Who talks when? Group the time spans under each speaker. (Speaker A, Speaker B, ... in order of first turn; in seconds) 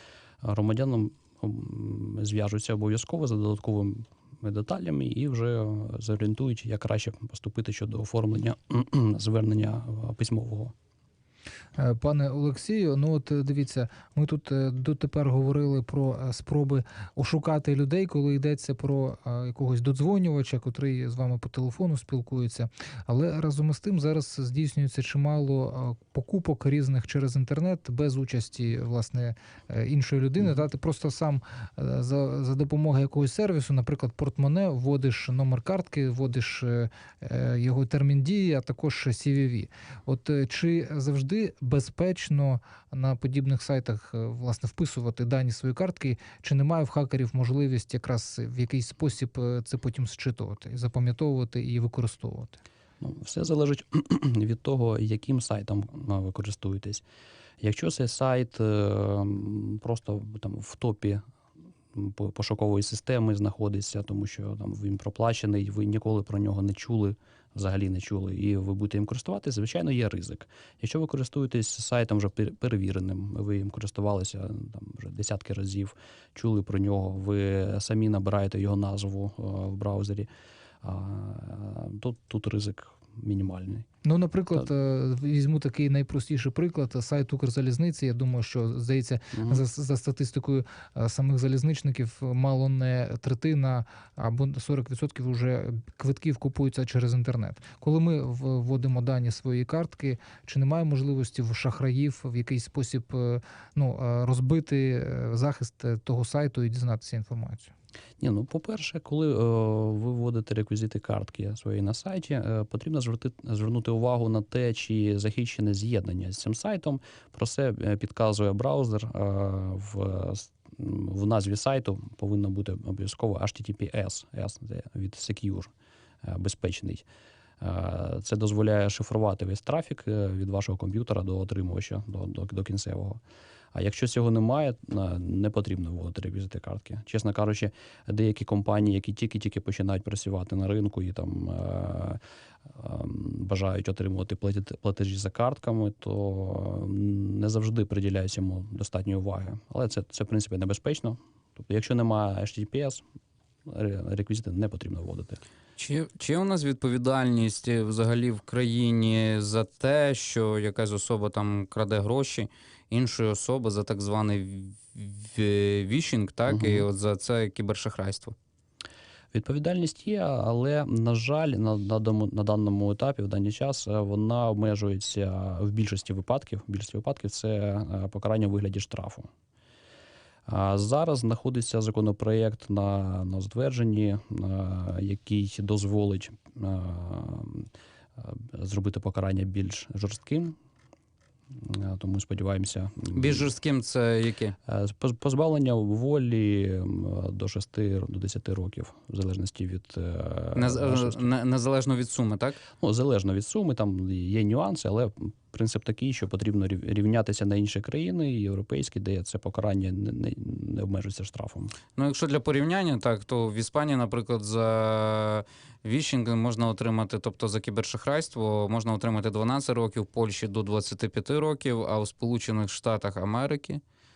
Speaker A: 0.4-10.7, 53.0-57.0, 57.6-61.2, 61.9-80.3, 80.8-83.9, 89.3-89.6, 108.2-125.7, 126.2-127.0, 127.6-133.2, 133.7-153.0, 153.7-155.4, 166.5-166.9, 169.3-179.3, 180.5-190.5, 191.5-193.4, 194.7-201.3, 202.8-211.8
Speaker B: 11.8-52.6, 84.0-107.7
Speaker C: 155.8-168.3, 193.1-194.6, 200.6-202.6, 211.9-223.8